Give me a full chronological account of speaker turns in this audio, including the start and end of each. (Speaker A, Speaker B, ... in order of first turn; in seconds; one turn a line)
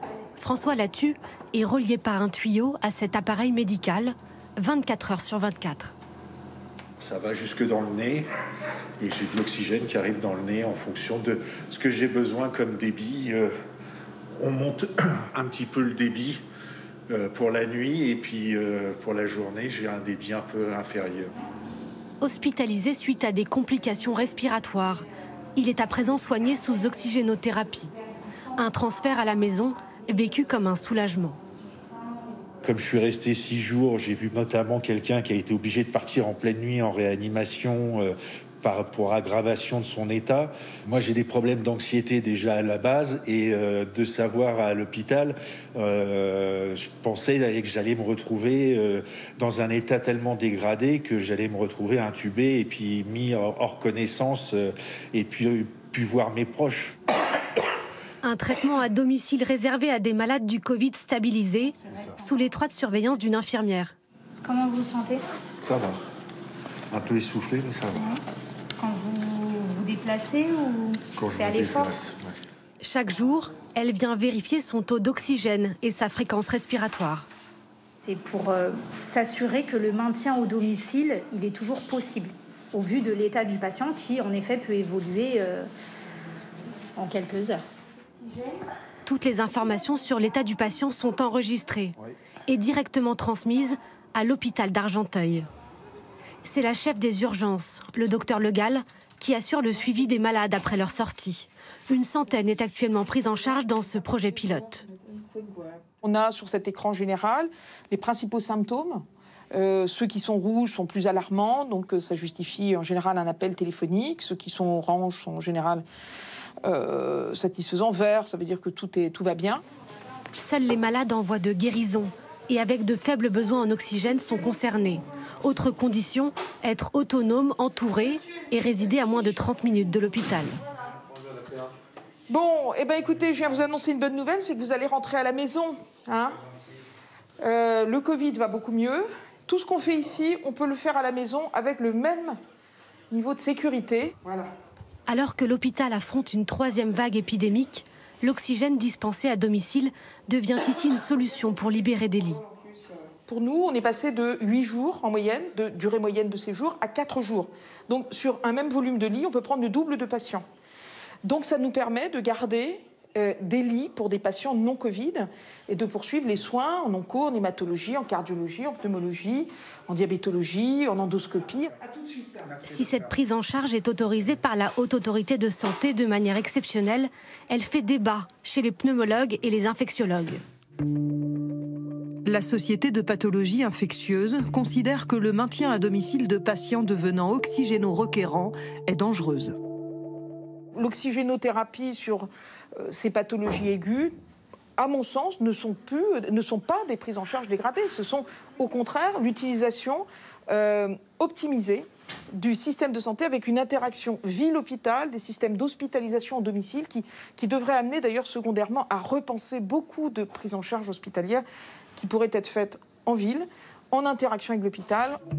Speaker A: 0.4-5.9
Speaker B: 7.0-8.3
Speaker B: 9.0-13.5
Speaker B: 14.4-16.4
Speaker B: 17.1-21.4
Speaker A: 22.2-27.9
Speaker A: 28.6-31.4
Speaker B: 32.6-57.0
Speaker A: 58.2-63.9
Speaker C: 64.4-65.2
Speaker B: 65.6-66.0
Speaker B: 66.9-68.1
Speaker C: 68.0-68.2
Speaker C: 68.8-71.9
Speaker B: 71.2-72.4
Speaker A: 72.8-77.3
Speaker C: 78.0-85.7
Speaker C: 87.0-87.6
Speaker A: 89.1-92.0
Speaker A: 92.5-95.5
Speaker A: 96.4-104.9
Speaker D: 105.4-115.8
Speaker D: 116.6-119.6
Speaker A: 120.3-130.6
Speaker D: 132.3-136.4
Speaker D: 137.4-142.4
Speaker D: 143.1-144.5
Speaker A: 145.1-152.4
Speaker D: 153.3-160.4
Speaker D: 161.2-172.6
Speaker A: 172.6-180.4
Speaker E: 182.2-189.6
Speaker D: 190.8-194.1
Speaker D: 194.8-211.4
Speaker D: 212.0-215.2